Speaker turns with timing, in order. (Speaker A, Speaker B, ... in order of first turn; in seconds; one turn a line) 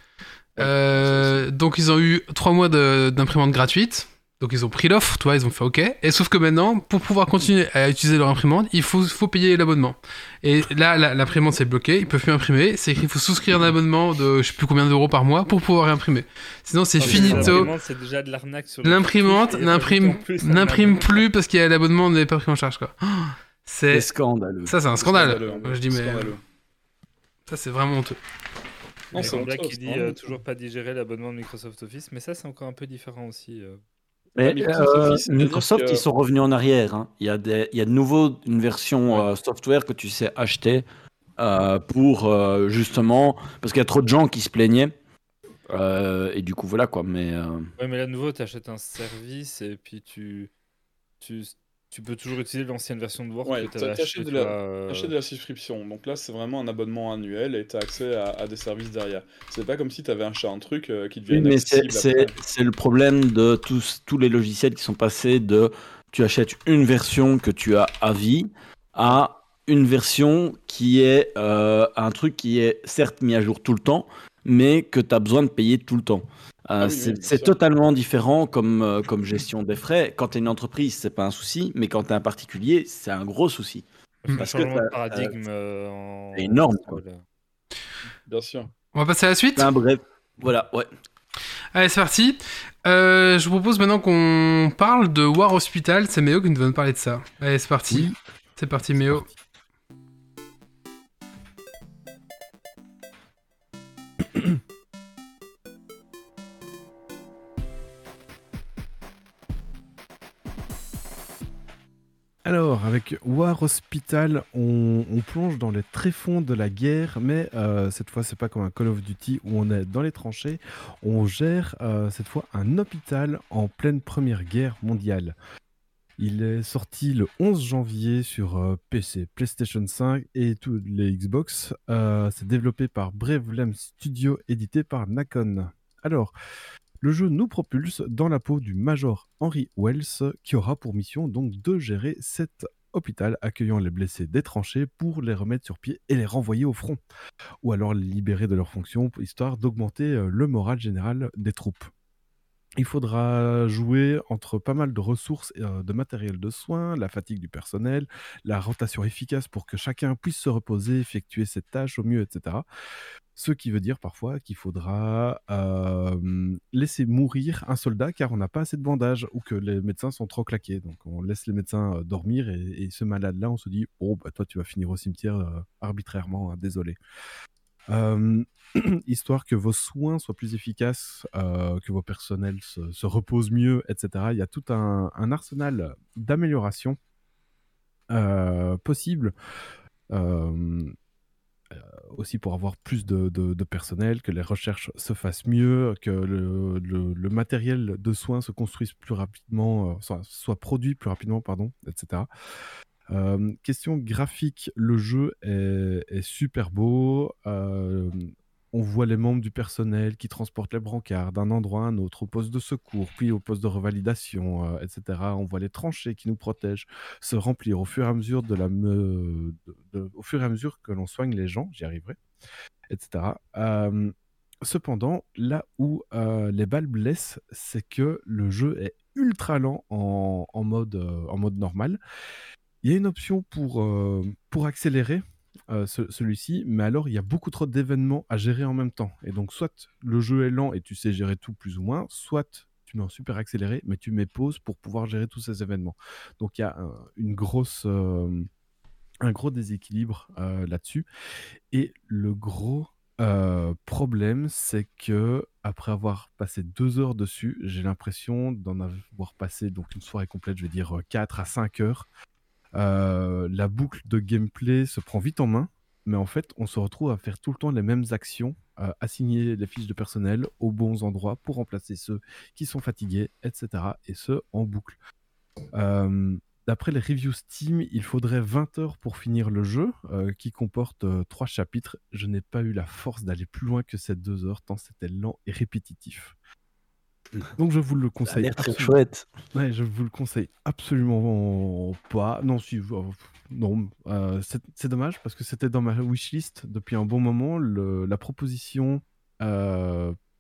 Speaker A: 0.6-1.5
Speaker B: 0.6-17.7
Speaker C: 17.0-21.2
Speaker D: 17.0-17.7
Speaker A: 17.1-17.5
Speaker B: 18.8-24.1
Speaker D: 23.9-24.8
Speaker B: 24.7-26.4
Speaker A: 25.0-26.4
Speaker B: 27.5-28.2
Speaker A: 29.1-30.2
Speaker C: 29.1-33.8
Speaker D: 34.4-40.9
Speaker A: 34.4-36.0
Speaker D: 41.4-44.9
Speaker D: 45.7-47.7
Speaker C: 47.8-50.5
Speaker C: 51.2-55.1
Speaker A: 53.5-62.3
Speaker D: 61.3-85.3
Speaker A: 76.8-77.5
Speaker C: 84.2-87.2
Speaker D: 86.3-87.0
Speaker A: 88.3-88.7
Speaker B: 88.9-89.7
Speaker D: 89.6-90.9
Speaker B: 91.7-99.3
Speaker E: 97.9-98.2
Speaker E: 98.9-99.3
Speaker E: 112.4-125.4
Speaker E: 126.2-136.3
Speaker E: 137.0-147.0
Speaker E: 147.6-151.9
Speaker E: 152.8-162.7
Speaker E: 163.4-177.0
Speaker E: 177.9-187.0
Speaker E: 188.1-189.3
Speaker E: 190.1-190.9
Speaker E: 191.7-202.3
Speaker E: 203.1-222.2
Speaker E: 222.9-232.0
Speaker E: 232.8-248.5
Speaker E: 249.2-251.1
Speaker E: 251.7-262.1
Speaker E: 262.7-275.0
Speaker E: 275.7-286.4
Speaker E: 287.6-289.0
Speaker D: 288.3-289.3
Speaker E: 289.5-300.2